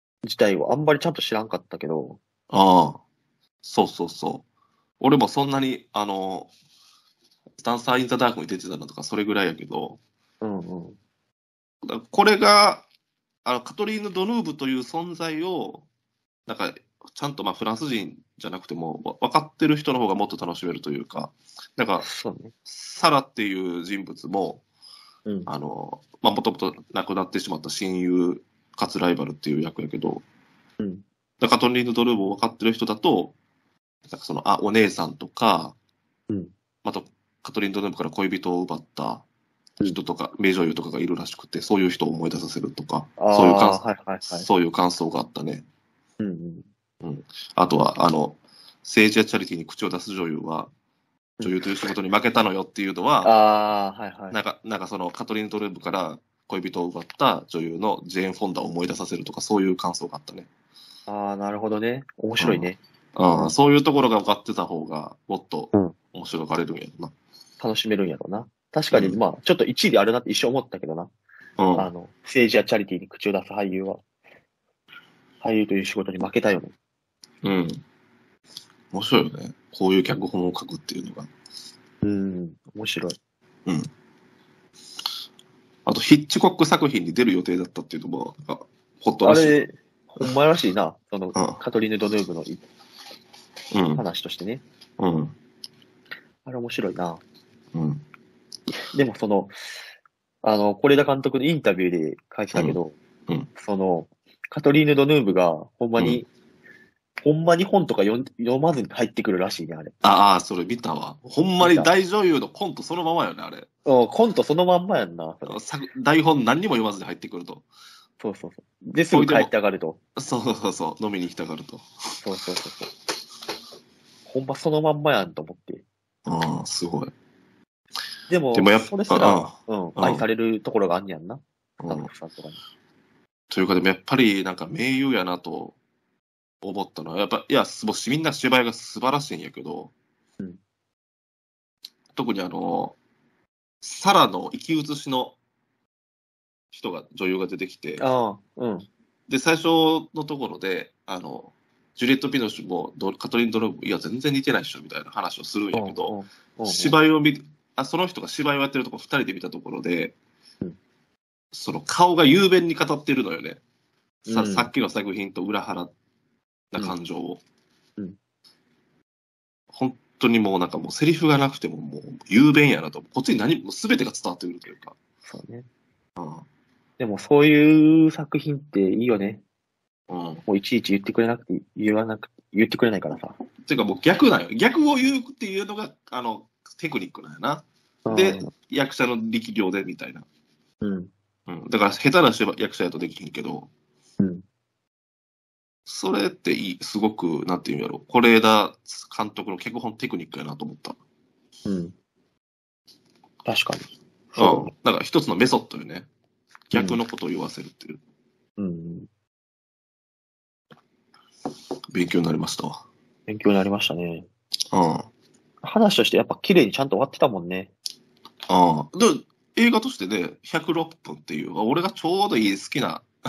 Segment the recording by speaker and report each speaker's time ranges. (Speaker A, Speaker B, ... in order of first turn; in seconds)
Speaker A: 0.2-2.2, 10.4-11.0, 22.0-22.5, 30.8-31.0, 43.2-44.5, 46.2-46.7, 51.4-51.6, 53.2-54.4, 61.1-62.8, 67.6-71.1, 71.7-74.0, 75.4-76.7, 82.0-83.2, 89.2-92.6, 94.0-94.6, 96.4-97.2, 98.9-99.8, 100.4-103.0, 103.5-106.3, 107.2-110.0, 111.6-111.9, 113.8-115.6, 118.2-120.0, 122.2-122.9, 124.2-125.8, 128.3-132.6, 148.0-148.9, 155.7-157.0, 164.2-164.7, 175.2-175.7, 177.0-179.4, 180.4-183.4, 188.1-188.5, 190.8-191.1, 194.2-194.4, 201.6-201.9, 203.4-204.7, 206.7-207.0, 208.6-209.1, 213.3-214.3, 215.6-217.7
Speaker B: 2.5-3.0, 3.6-4.4, 5.0-6.5, 7.6-10.0, 11.8-12.8, 13.4-15.8, 16.5-22.1, 22.6-24.6, 25.5-30.2, 31.4-33.3, 34.1-35.8, 36.8-39.2, 39.8-45.6, 47.0-50.7, 51.4-53.3, 54.3-60.5, 62.4-67.1, 68.9-69.2, 71.6-71.9, 77.4-77.8, 78.9-81.3, 85.8-89.5, 93.7-94.0, 95.0-95.3, 97.7-98.0, 102.5-103.5, 110.0-113.7, 115.5-117.6, 119.1-119.5, 120.2-121.8, 126.2-127.1, 128.5-130.2, 131.8-132.1, 133.5-135.8, 136.6-139.9, 142.1-143.0, 143.8-145.4, 146.7-148.0, 149.3-156.1, 156.6-160.2, 161.5-163.6, 164.3-165.9, 166.7-167.4, 169.7-174.9, 176.2-176.4, 180.1-180.4, 183.7-190.2, 191.5-193.7, 195.9-201.0, 204.4-206.1, 206.7-208.0, 211.9-212.8, 214.7-215.1, 218.5-223.1